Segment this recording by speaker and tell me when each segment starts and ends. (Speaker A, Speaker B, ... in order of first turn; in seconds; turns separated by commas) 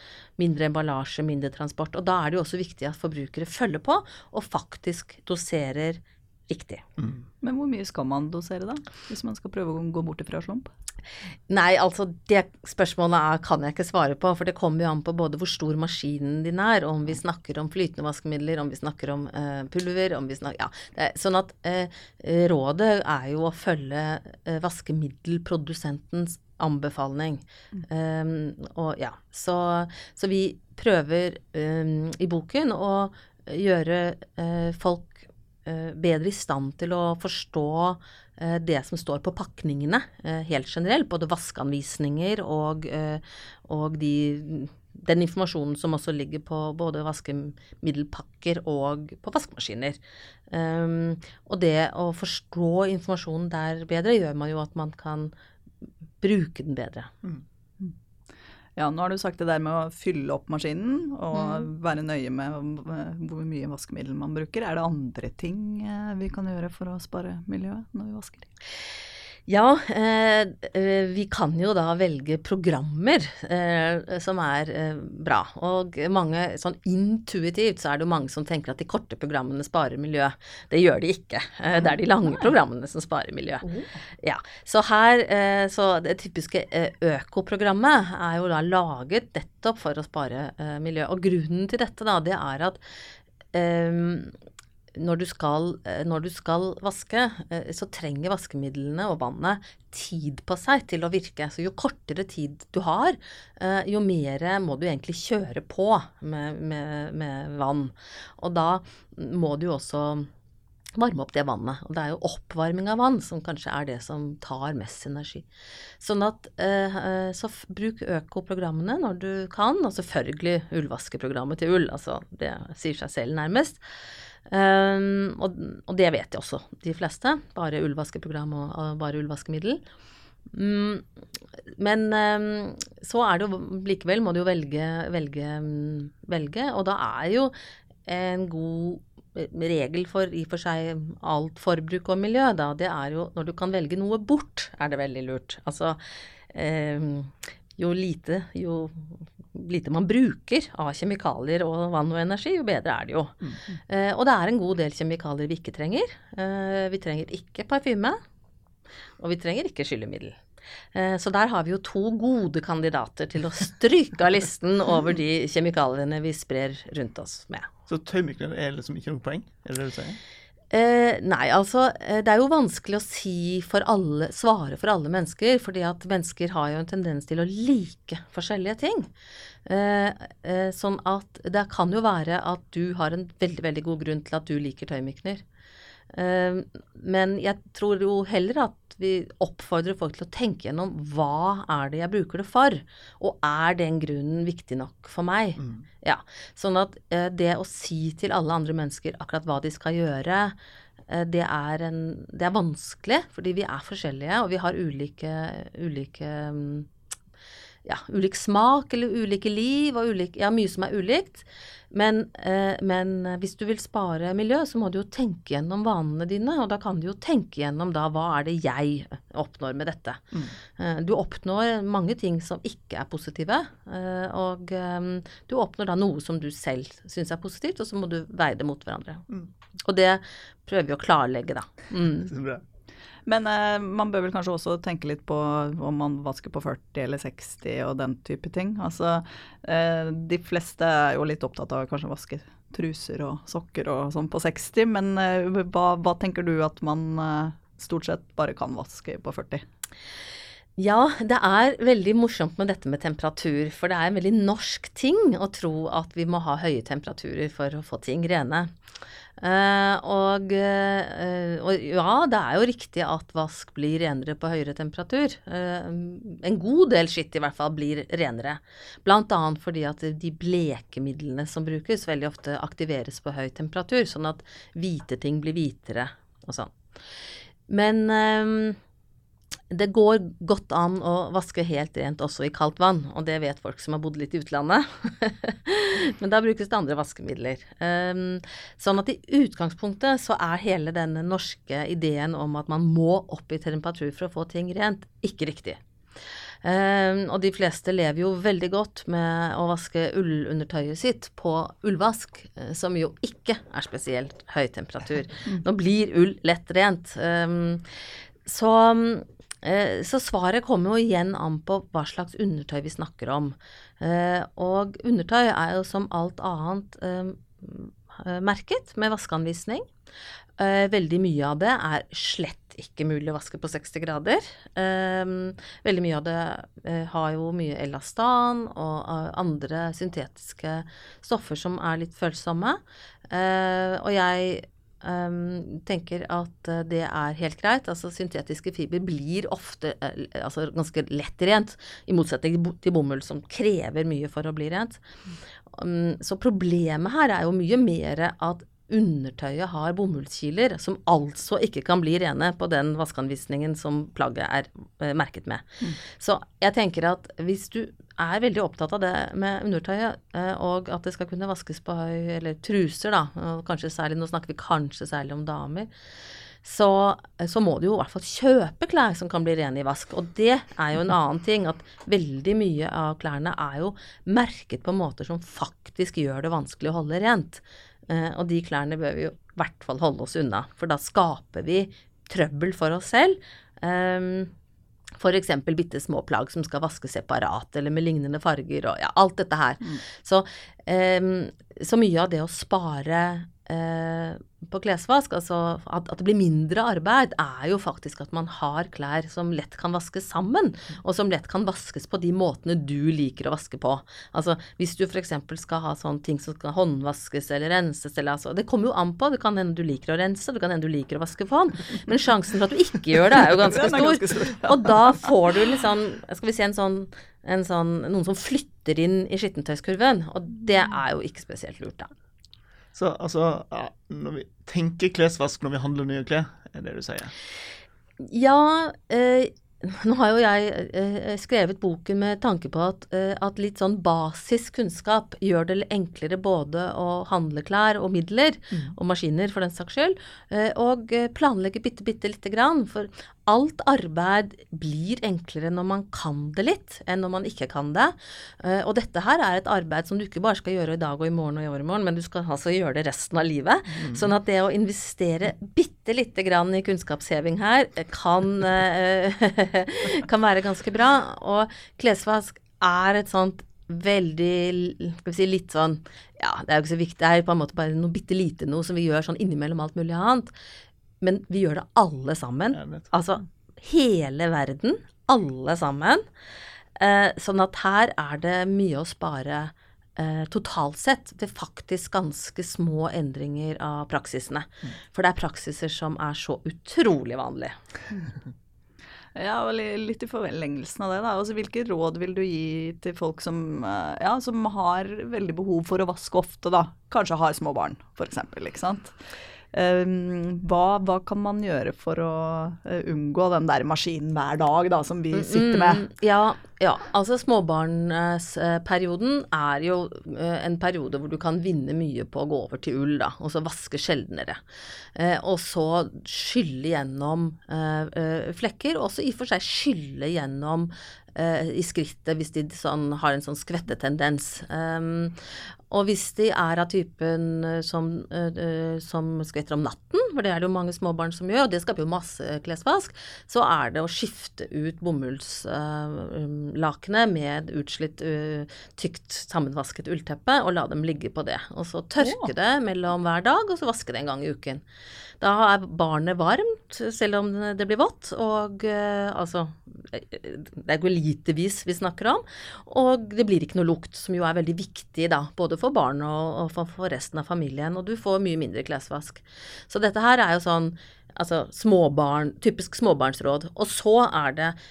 Speaker A: 0.4-6.9, Speaker B: 7.4-10.7, Speaker A: 11.5-50.0, Speaker A: 50.5-55.3, Speaker A: 56.2-57.1, Speaker B: 58.8-68.5, Speaker A: 69.5-83.7, Speaker A: 84.2-92.8, Speaker A: 93.5-94.3, Speaker A: 95.0-110.3, Speaker A: 111.0-115.5, Speaker A: 116.0-123.8, Speaker A: 124.5-129.8, Speaker A: 130.5-131.1, Speaker A: 131.8-137.5, Speaker A: 138.1-146.0, Speaker A: 146.5-153.4, Speaker A: 153.9-158.2, Speaker A: 159.2-160.4, Speaker A: 160.9-167.7, Speaker C: 167.9-170.2, Speaker A: 170.7-179.1, Speaker A: 179.7-185.4, Speaker A: 186.1-200.6, Speaker C: 195.6-195.8, Speaker A: 201.1-206.9, Speaker A: 207.8-229.3, Speaker A: 229.8-232.3, Speaker C: 232.2-232.6, Speaker B: 233.3-249.6, Speaker A: 250.8-258.7, Speaker A: 259.4-276.7, Speaker A: 277.7-278.8, Speaker A: 279.7-295.8, Speaker A: 296.6-307.9, Speaker A: 308.5-319.9, Speaker A: 320.6-345.0, Speaker A: 345.7-365.9, Speaker A: 366.6-384.5, Speaker A: 385.2-422.1, Speaker B: 413.5-415.2, Speaker C: 422.9-427.3, Speaker A: 428.2-470.5, Speaker C: 454.0-454.3, Speaker A: 471.2-476.2, Speaker C: 472.7-473.1, Speaker A: 477.0-487.8, Speaker B: 489.4-499.2, Speaker B: 499.7-506.1, Speaker A: 505.3-514.6, Speaker A: 515.1-525.4, Speaker A: 525.9-544.8, Speaker A: 545.4-564.8